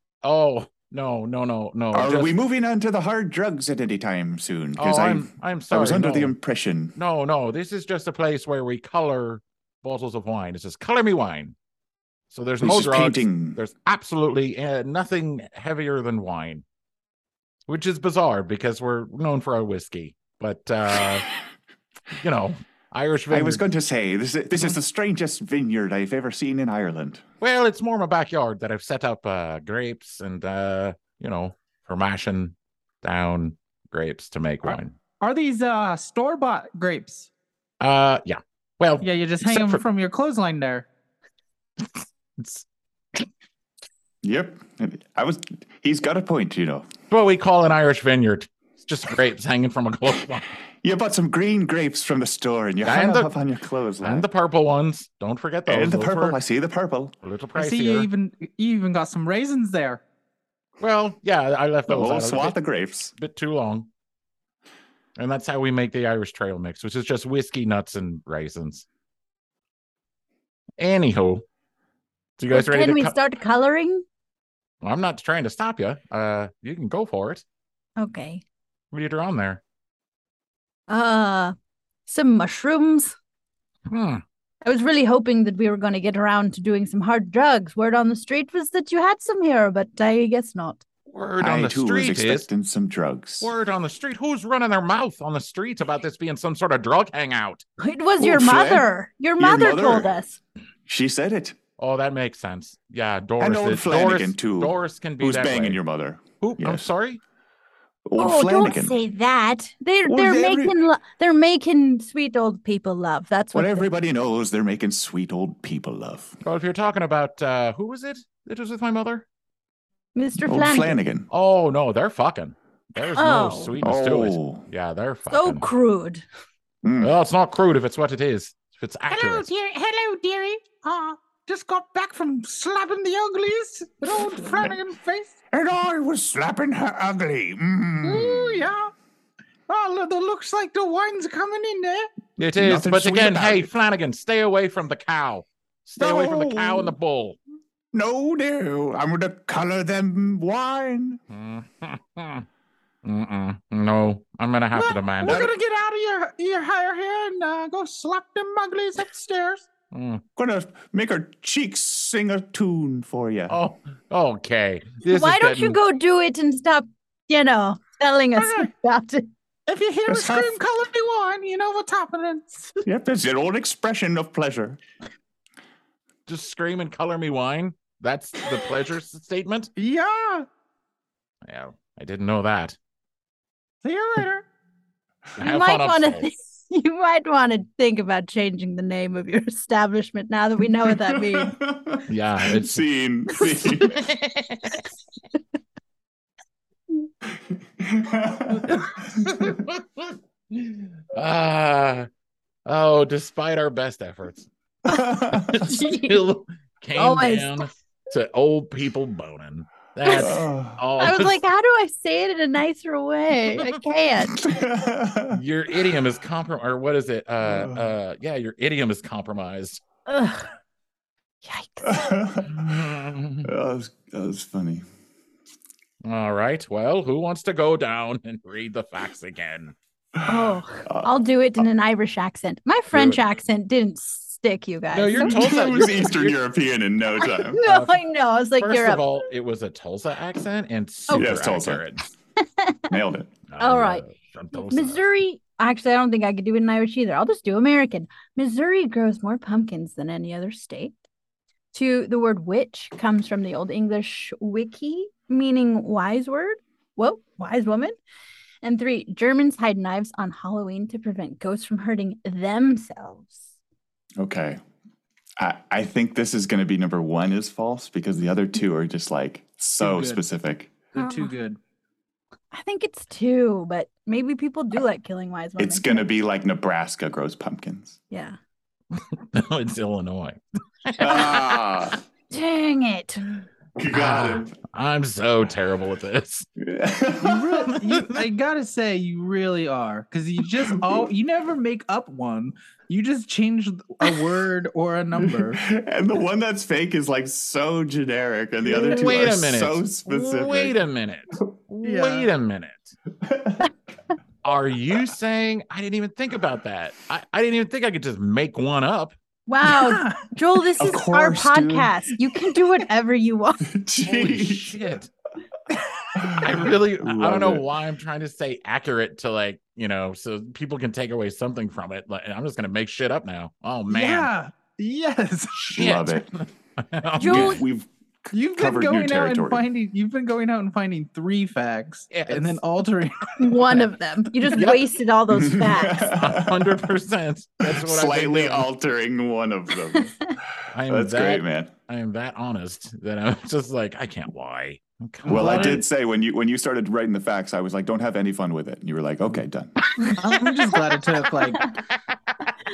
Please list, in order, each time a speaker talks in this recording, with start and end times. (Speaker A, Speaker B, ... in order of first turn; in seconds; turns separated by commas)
Speaker A: 0.2-2.3, Speaker B: 1.9-7.0, Speaker A: 4.8-6.3, Speaker A: 7.0-11.5, Speaker A: 12.3-16.6, Speaker B: 12.6-13.6, Speaker A: 17.7-21.3, Speaker A: 22.1-23.6, Speaker B: 23.3-27.2, Speaker A: 27.4-35.0, Speaker C: 34.7-37.3, Speaker A: 37.8-39.8, Speaker C: 39.0-40.9, Speaker A: 41.8-43.3, Speaker B: 44.2-46.9, Speaker A: 47.1-50.5, Speaker B: 50.8-54.2, Speaker A: 52.8-53.3, Speaker A: 54.0-56.4, Speaker B: 55.7-57.1, Speaker A: 57.2-58.1, Speaker C: 57.5-60.0, Speaker A: 60.8-62.6, Speaker B: 61.9-63.1, Speaker A: 63.1-63.9, Speaker A: 65.2-68.8, Speaker A: 70.8-71.5, Speaker A: 72.4-73.2, Speaker D: 72.5-74.0, Speaker A: 74.8-77.4, Speaker D: 78.0-78.4, Speaker A: 78.9-79.6, Speaker D: 80.9-81.5, Speaker D: 82.1-83.2, Speaker A: 83.9-84.2, Speaker D: 84.6-90.8, Speaker A: 91.1-92.5, Speaker B: 91.4-93.5, Speaker A: 93.4-97.6, Speaker D: 97.8-100.3, Speaker B: 98.2-100.3, Speaker B: 100.8-101.6, Speaker A: 101.8-105.8, Speaker B: 103.4-106.9, Speaker A: 106.4-107.2, Speaker B: 108.1-109.0, Speaker D: 108.2-113.9, Speaker B: 110.0-110.7, Speaker B: 113.5-116.4, Speaker A: 116.4-119.2, Speaker D: 120.1-120.9, Speaker B: 120.4-121.3, Speaker A: 121.3-125.6, Speaker D: 123.1-123.7, Speaker B: 123.8-124.6, Speaker D: 125.3-126.2, Speaker B: 126.8-127.1, Speaker A: 127.0-129.5, Speaker C: 129.1-135.3, Speaker B: 134.5-134.8, Speaker B: 135.5-138.7, Speaker C: 138.0-138.9, Speaker C: 139.7-142.1, Speaker A: 142.4-147.4, Speaker B: 142.6-143.7, Speaker B: 146.0-146.9, Speaker B: 147.9-151.2, Speaker A: 151.3-152.4, Speaker A: 153.0-155.5, Speaker C: 154.7-159.7, Speaker B: 155.2-155.5, Speaker A: 159.9-160.2, Speaker B: 160.3-163.6, Speaker A: 163.5-165.8, Speaker D: 165.0-169.3, Speaker C: 168.3-168.7, Speaker C: 169.7-172.6, Speaker B: 170.1-170.5, Speaker B: 172.8-174.8, Speaker A: 176.3-179.7, Speaker C: 179.8-180.5, Speaker A: 181.4-182.8, Speaker C: 183.8-184.4, Speaker A: 185.4-186.3, Speaker D: 185.4-191.6, Speaker B: 191.0-194.1, Speaker A: 192.1-193.0, Speaker D: 193.3-193.9, Speaker A: 193.8-194.8, Speaker B: 197.8-199.3, Speaker A: 198.7-202.1, Speaker A: 202.7-204.5, Speaker B: 204.8-205.7, Speaker D: 204.8-206.2, Speaker A: 205.4-211.4, Speaker D: 206.9-207.7, Speaker D: 210.0-210.3, Speaker B: 210.1-211.0, Speaker D: 211.0-214.4, Speaker B: 214.4-215.4, Speaker A: 215.3-219.8, Speaker B: 217.4-217.9, Speaker D: 220.1-220.5, Speaker D: 221.4-222.1, Speaker B: 221.8-224.8, Speaker A: 222.5-223.5, Speaker A: 226.0-229.7, Speaker B: 230.2-231.6, Speaker D: 230.2-236.0, Speaker A: 232.9-233.2, Speaker A: 234.9-236.4, Speaker B: 235.2-237.6, Speaker D: 237.2-239.0, Speaker A: 237.6-238.0, Speaker A: 238.6-242.1, Speaker D: 241.1-241.3, Speaker B: 241.1-241.8, Speaker D: 242.6-242.9, Speaker B: 242.9-243.3, Speaker A: 243.5-245.0, Speaker D: 243.6-244.0, Speaker D: 244.7-250.9, Speaker D: 251.7-257.9, Speaker D: 258.6-263.4, Speaker B: 264.2-264.6, Speaker B: 265.4-270.7, Speaker C: 269.8-270.2, Speaker C: 270.9-271.6, Speaker D: 271.0-271.3, Speaker D: 272.5-276.0, Speaker B: 275.6-278.0, Speaker D: 278.1-278.4, Speaker A: 278.9-281.5, Speaker B: 281.0-282.0, Speaker D: 282.3-283.2, Speaker B: 283.8-284.6, Speaker A: 283.9-286.5, Speaker B: 286.6-287.7, Speaker C: 287.2-295.6, Speaker A: 287.7-288.2, Speaker B: 290.6-290.9, Speaker B: 295.2-300.8, Speaker A: 298.7-303.0, Speaker C: 301.8-302.3, Speaker B: 303.2-303.7, Speaker A: 304.4-309.1, Speaker D: 309.5-313.7, Speaker C: 309.6-310.3, Speaker B: 310.8-311.9, Speaker B: 313.7-314.7, Speaker A: 314.0-315.1, Speaker C: 315.7-316.2, Speaker B: 316.1-317.7, Speaker A: 316.3-324.3, Speaker C: 323.9-325.7, Speaker A: 325.6-327.6, Speaker B: 325.7-326.4, Speaker D: 327.2-327.6, Speaker B: 327.2-329.6, Speaker C: 328.3-333.9, Speaker A: 332.1-332.6, Speaker D: 333.4-336.1, Speaker A: 334.5-334.9, Speaker B: 335.3-336.9, Speaker A: 336.1-338.7, Speaker B: 337.6-341.7, Speaker A: 340.7-345.8, Speaker C: 345.2-345.8, Speaker B: 345.3-349.8, Speaker C: 350.0-351.7